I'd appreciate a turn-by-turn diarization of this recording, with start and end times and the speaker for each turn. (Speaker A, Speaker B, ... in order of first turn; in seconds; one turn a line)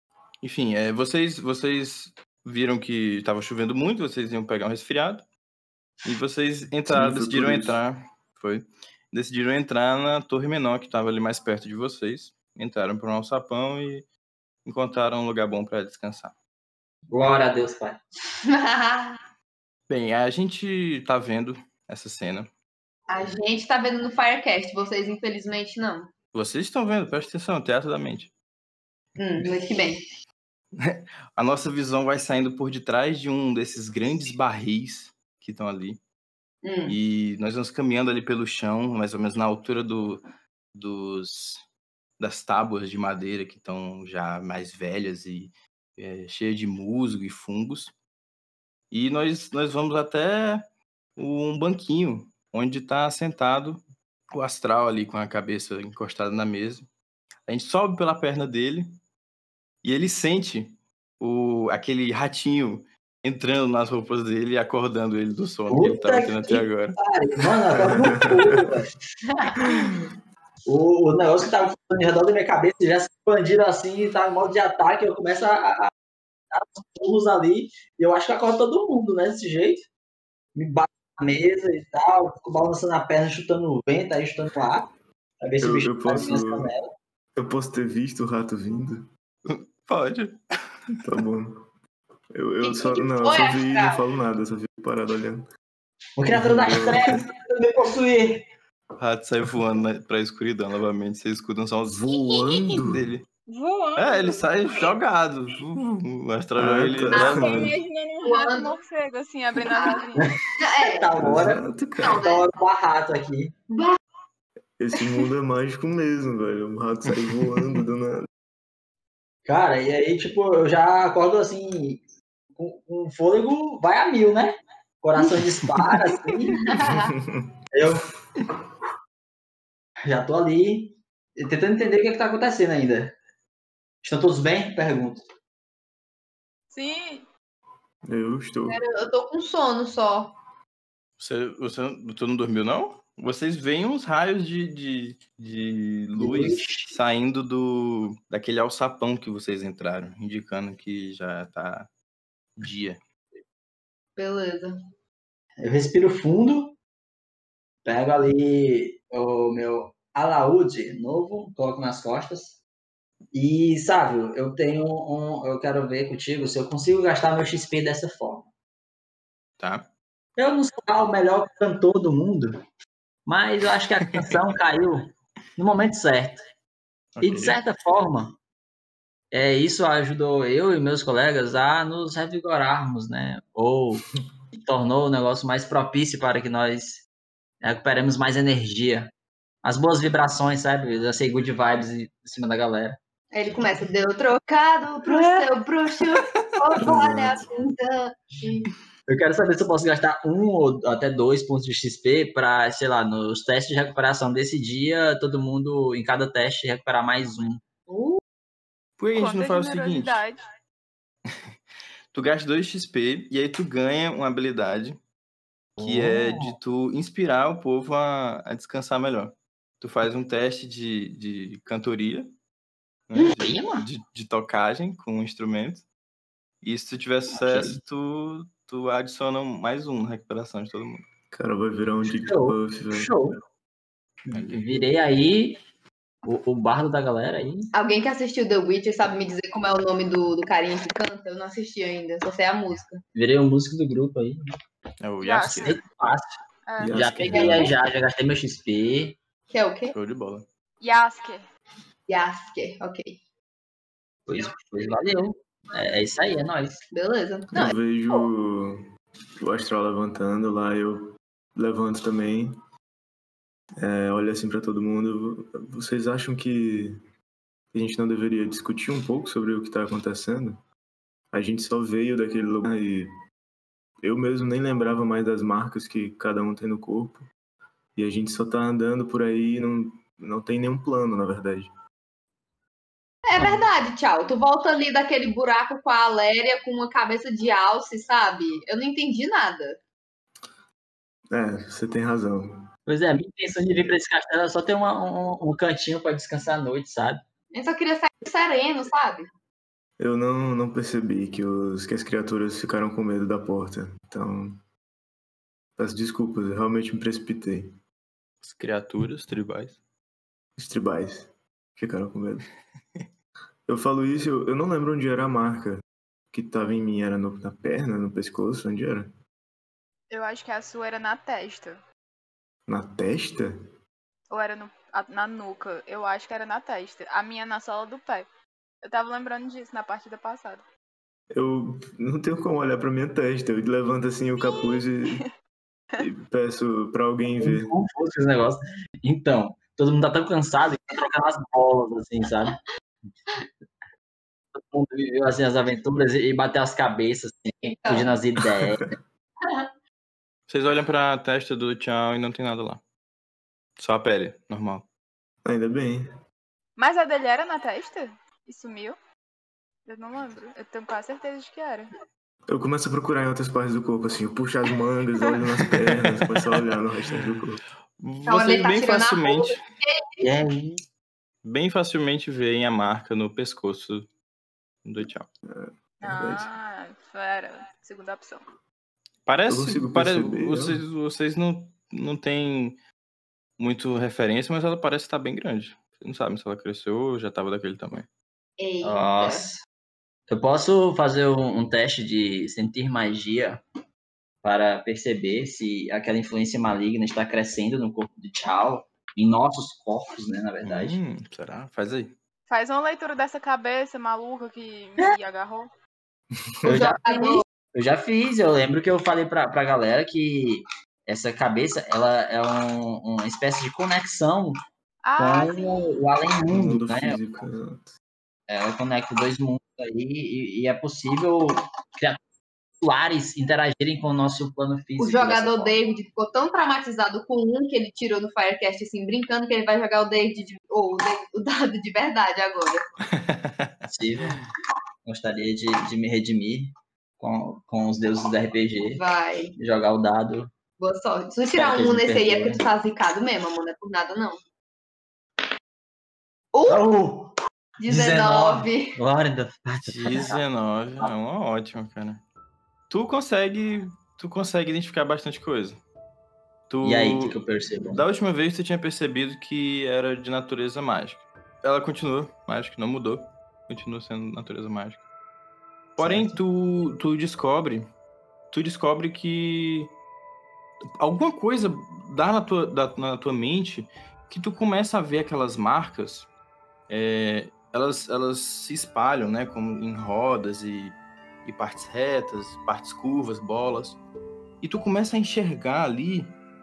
Speaker A: 0.4-5.2
Speaker A: 6.0-14.1
Speaker B: 6.9-7.8
Speaker A: 14.6-16.3
Speaker C: 17.1-18.0
Speaker D: 18.5-19.2
Speaker A: 19.9-22.5
Speaker D: 23.1-26.1
Speaker A: 26.3-28.3
Speaker D: 29.2-30.0
Speaker A: 30.8-36.0
Speaker D: 36.6-37.0
Speaker A: 36.9-40.2
Speaker A: 40.7-41.6
Speaker A: 42.2-47.9
Speaker A: 48.9-50.6
Speaker A: 51.2-56.9
Speaker A: 57.5-58.9
Speaker A: 59.8-67.0
Speaker C: 65.7-68.9
Speaker B: 67.9-68.3
Speaker D: 69.4-69.7
Speaker B: 69.6-69.9
Speaker C: 70.7-75.9
Speaker C: 76.5-79.9
Speaker C: 80.5-84.9
Speaker C: 85.4-86.9
Speaker B: 85.6-86.7
Speaker B: 87.3-89.0
Speaker A: 89.5-90.4
Speaker B: 91.0-91.6
Speaker B: 92.3-95.5
Speaker D: 92.6-94.0
Speaker C: 96.2-98.5
Speaker B: 96.3-97.2
Speaker A: 99.0-103.2
Speaker B: 101.9-103.1
Speaker E: 103.5-104.9
Speaker A: 104.0-107.8
Speaker B: 106.6-107.7
Speaker D: 107.1-107.5
Speaker E: 107.2-110.4
Speaker D: 108.2-108.8
Speaker D: 109.7-111.2
Speaker C: 110.2-111.6
Speaker B: 111.2-112.4
Speaker D: 112.0-112.4
Speaker C: 112.2-113.5
Speaker D: 113.7-114.0
Speaker B: 114.8-118.3
Speaker C: 119.5-122.0
Speaker C: 122.5-126.6
Speaker D: 126.5-127.1
Speaker B: 126.7-127.5
Speaker C: 127.7-128.1
Speaker C: 130.0-133.2
Speaker C: 134.0-135.2
Speaker E: 136.7-137.3
Speaker B: 138.1-138.8
Speaker D: 138.7-140.3
Speaker A: 141.2-151.9
Speaker C: 146.2-146.9
Speaker A: 152.6-153.0
Speaker D: 154.2-154.8
Speaker C: 155.6-156.8
Speaker C: 157.8-162.6
Speaker C: 163.3-168.5
Speaker A: 169.6-169.9
Speaker C: 170.4-172.6
Speaker C: 173.2-176.5
Speaker A: 177.1-177.6
Speaker C: 177.2-178.4
Speaker C: 179.3-187.0
Speaker C: 187.6-189.1
Speaker C: 189.6-193.0
Speaker D: 193.3-198.7
Speaker C: 195.1-195.5
Speaker B: 196.8-197.4
Speaker C: 199.1-207.6
Speaker D: 207.9-208.2
Speaker A: 209.0-210.2
Speaker E: 209.2-210.4
Speaker A: 212.1-215.0
Speaker C: 215.8-216.6
Speaker A: 215.8-222.3
Speaker A: 223.1-225.8
Speaker C: 223.2-223.9
Speaker A: 226.6-231.0
Speaker C: 227.3-227.8
Speaker B: 231.3-233.1
Speaker C: 232.0-233.4
Speaker C: 234.2-235.6
Speaker A: 234.3-234.6
Speaker C: 236.2-237.7
Speaker D: 237.7-243.0
Speaker C: 243.1-244.4
Speaker A: 245.0-245.8
Speaker E: 245.2-245.8
Speaker C: 245.6-246.4
Speaker E: 246.7-247.1
Speaker B: 246.8-247.7
Speaker C: 246.9-249.2
Speaker D: 247.3-247.6
Speaker D: 249.5-249.9
Speaker A: 249.9-250.4
Speaker E: 250.8-251.5
Speaker D: 252.1-253.2
Speaker C: 254.3-256.9
Speaker D: 256.9-257.8
Speaker B: 257.5-258.8
Speaker B: 259.4-262.5
Speaker B: 263.8-267.0
Speaker B: 267.7-270.6
Speaker B: 271.3-273.1
Speaker B: 274.0-277.3
Speaker B: 277.9-281.7
Speaker D: 283.2-289.8
Speaker B: 291.3-292.6
Speaker C: 292.9-297.2
Speaker D: 297.5-299.3
Speaker B: 300.0-304.6
Speaker B: 305.8-307.8
Speaker A: 308.4-309.8
Speaker B: 310.6-312.5
Speaker B: 313.7-319.1
Speaker E: 320.1-321.8
Speaker B: 322.7-323.6
Speaker E: 324.3-328.3
Speaker E: 328.8-330.6
Speaker B: 331.3-335.2
Speaker E: 334.4-335.3
Speaker B: 336.0-337.7
Speaker C: 337.3-342.6
Speaker C: 344.5-348.9
Speaker D: 347.6-348.1
Speaker A: 350.5-352.8
Speaker A: 353.8-354.8
Speaker B: 355.4-356.1
Speaker E: 356.8-359.0
Speaker E: 359.8-361.9
Speaker B: 362.5-367.6
Speaker A: 368.0-369.6
Speaker D: 368.3-370.2
Speaker C: 370.2-370.8
Speaker A: 371.4-374.1
Speaker A: 374.8-375.3
Speaker B: 375.4-376.5
Speaker E: 376.0-378.4
Speaker A: 379.2-382.8
Speaker B: 379.5-380.8
Speaker A: 383.6-388.1
Speaker D: 388.6-389.5
Speaker C: 388.8-389.6
Speaker C: 390.3-393.6
Speaker C: 394.4-401.0
Speaker A: 400.6-402.1
Speaker E: 402.5-405.7
Speaker C: 406.6-414.6
Speaker D: 406.6-407.4
Speaker E: 415.0-416.0
Speaker C: 415.2-417.4
Speaker B: 416.5-417.9
Speaker C: 418.5-422.2
Speaker C: 422.8-425.8
Speaker D: 425.0-432.9
Speaker A: 433.1-433.8
Speaker C: 433.8-434.4
Speaker C: 435.0-439.0
Speaker D: 439.0-439.5
Speaker C: 439.6-440.5
Speaker D: 440.8-444.4
Speaker C: 441.5-442.6
Speaker D: 446.5-446.8
Speaker C: 446.6-447.3
Speaker D: 447.8-449.0
Speaker C: 447.9-450.4
Speaker A: 449.9-452.2
Speaker A: 452.9-455.8
Speaker A: 456.7-465.0
Speaker C: 456.8-458.0
Speaker A: 465.9-467.9
Speaker C: 466.0-466.4
Speaker A: 468.5-469.9
Speaker A: 471.0-476.3
Speaker A: 476.9-484.0
Speaker A: 484.6-486.3